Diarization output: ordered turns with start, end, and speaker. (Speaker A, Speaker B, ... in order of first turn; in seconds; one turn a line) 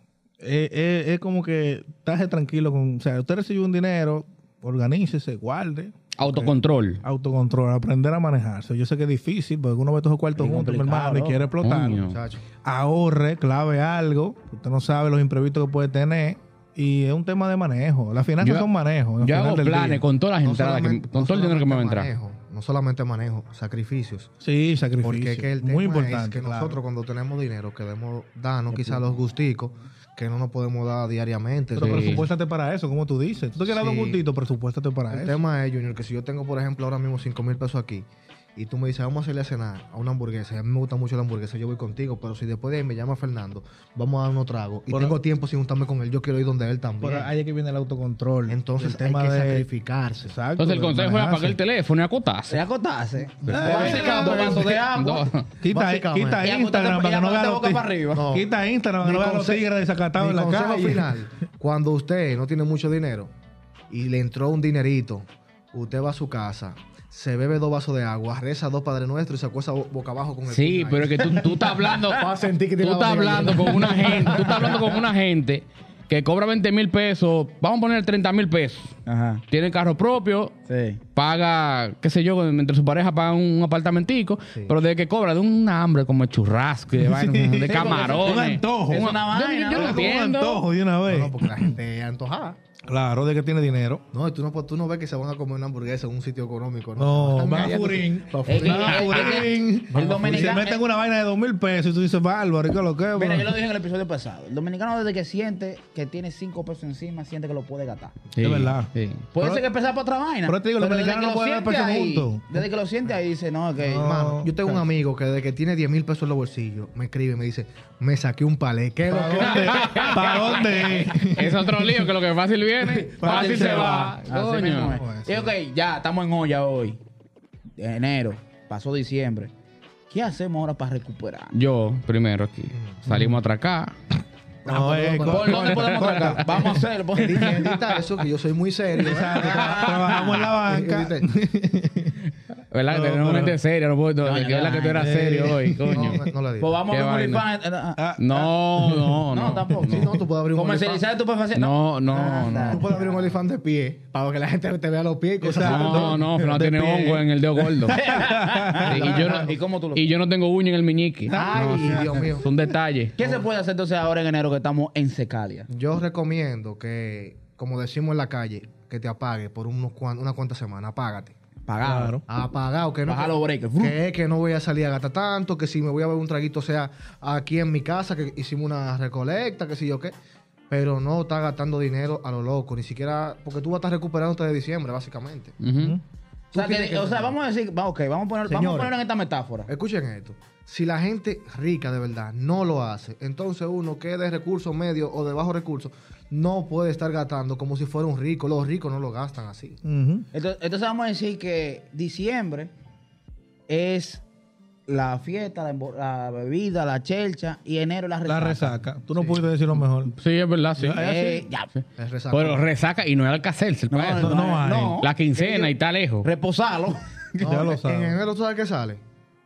Speaker A: 0.4-12.0
Speaker B: 6.2-7.0
Speaker C: 10.3-11.4
Speaker B: 11.6-12.2
Speaker D: 12.0-12.4
Speaker A: 12.6-20.0
Speaker B: 18.4-18.7
Speaker B: 19.2-22.1
Speaker D: 20.4-24.3
Speaker A: 24.4-26.8
Speaker D: 25.0-32.2
Speaker C: 28.7-29.1
Speaker A: 31.8-35.4
Speaker B: 31.8-32.2
Speaker D: 33.6-34.2
Speaker D: 35.1-47.3
Speaker A: 44.9-45.2
Speaker A: 47.0-49.7
Speaker D: 48.5-50.4
Speaker A: 50.2-51.6
Speaker B: 50.6-52.6
Speaker C: 52.5-55.3
Speaker D: 53.4-54.9
Speaker A: 53.5-54.8
Speaker B: 53.8-54.4
Speaker B: 54.9-55.5
Speaker A: 55.6-61.1
Speaker D: 55.7-56.4
Speaker C: 56.4-58.3
Speaker D: 58.1-63.3
Speaker D: 63.9-75.0
Speaker B: 70.5-79.0
Speaker C: 71.3-71.8
Speaker C: 73.8-74.9
Speaker C: 79.0-79.4
Speaker B: 79.5-80.5
Speaker C: 80.7-81.0
Speaker B: 81.1-90.6
Speaker A: 87.0-89.2
Speaker C: 87.7-90.1
Speaker A: 89.7-91.8
Speaker D: 91.1-92.6
Speaker A: 92.9-94.0
Speaker D: 94.1-100.7
Speaker A: 97.0-103.5
Speaker C: 98.5-100.8
Speaker C: 103.2-108.2
Speaker B: 108.3-109.3
Speaker A: 108.4-109.6
Speaker C: 109.3-114.1
Speaker A: 110.5-112.5
Speaker A: 113.8-114.5
Speaker D: 114.0-120.2
Speaker A: 119.1-121.7
Speaker B: 119.3-125.0
Speaker C: 119.8-121.1
Speaker A: 123.2-125.5
Speaker C: 123.2-127.0
Speaker C: 127.8-129.5
Speaker C: 130.1-131.5
Speaker B: 131.5-133.9
Speaker D: 132.7-133.1
Speaker A: 133.1-133.4
Speaker D: 134.6-135.7
Speaker A: 134.6-136.8
Speaker C: 135.2-138.1
Speaker B: 135.5-136.1
Speaker D: 137.1-141.3
Speaker A: 139.0-142.2
Speaker B: 139.4-140.0
Speaker C: 139.6-140.3
Speaker B: 142.7-146.2
Speaker A: 142.9-143.6
Speaker C: 144.2-145.6
Speaker A: 144.9-146.2
Speaker D: 145.9-146.7
Speaker C: 146.6-148.0
Speaker B: 146.9-147.4
Speaker A: 147.9-149.2
Speaker B: 148.2-150.0
Speaker C: 149.3-153.4
Speaker D: 149.8-151.0
Speaker B: 151.5-152.8
Speaker D: 152.7-156.3
Speaker A: 155.4-159.1
Speaker B: 155.6-158.0
Speaker C: 157.9-160.0
Speaker B: 158.8-163.2
Speaker D: 158.9-159.5
Speaker D: 161.3-162.5
Speaker A: 161.5-162.2
Speaker C: 163.2-165.7
Speaker D: 163.2-163.4
Speaker D: 165.7-171.3
Speaker C: 171.7-172.2
Speaker A: 171.8-172.2
Speaker D: 172.3-180.1
Speaker C: 173.1-173.9
Speaker D: 180.7-185.6
Speaker B: 185.6-186.0
Speaker D: 186.5-187.3
Speaker C: 186.5-189.7
Speaker D: 188.5-188.9
Speaker D: 189.7-199.8
Speaker A: 199.8-200.3
Speaker C: 200.3-202.7
Speaker C: 203.7-204.2
Speaker C: 204.9-208.8
Speaker A: 208.2-210.1
Speaker B: 210.1-211.1
Speaker A: 210.8-211.4
Speaker C: 211.0-211.7
Speaker B: 211.8-216.3
Speaker D: 212.0-212.6
Speaker C: 213.9-217.6
Speaker A: 214.2-215.0
Speaker A: 217.4-218.2
Speaker D: 217.4-219.0